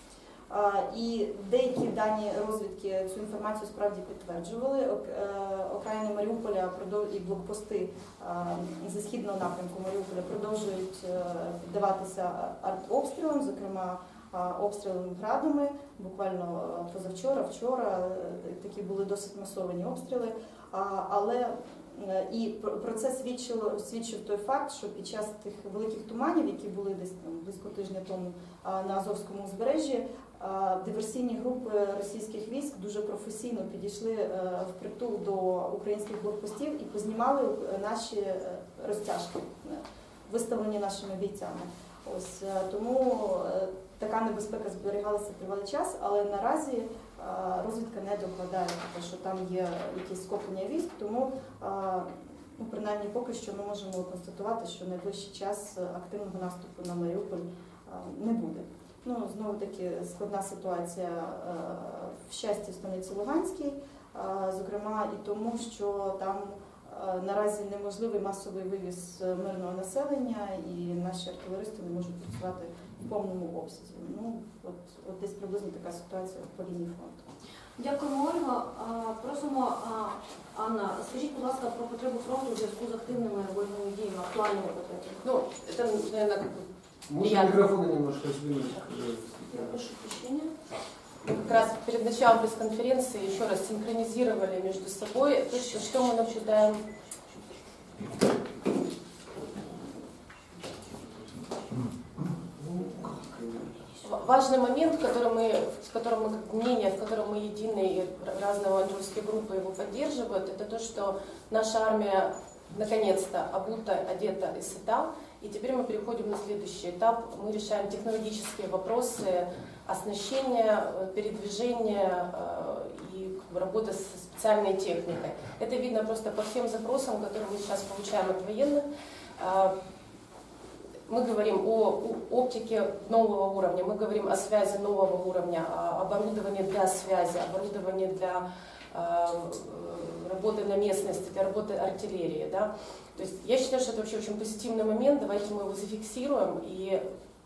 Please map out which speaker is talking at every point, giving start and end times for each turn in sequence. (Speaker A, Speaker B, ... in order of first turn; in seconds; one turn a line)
Speaker A: 0.5-77.3
Speaker B: 77.8-85.2
Speaker C: 85.2-87.7
Speaker D: 87.1-89.8
Speaker B: 89.5-90.5
Speaker C: 91.2-96.8
Speaker D: 102.6-103.9
Speaker C: 104.0-128.8
Speaker C: 129.4-129.7
Speaker C: 131.1-147.0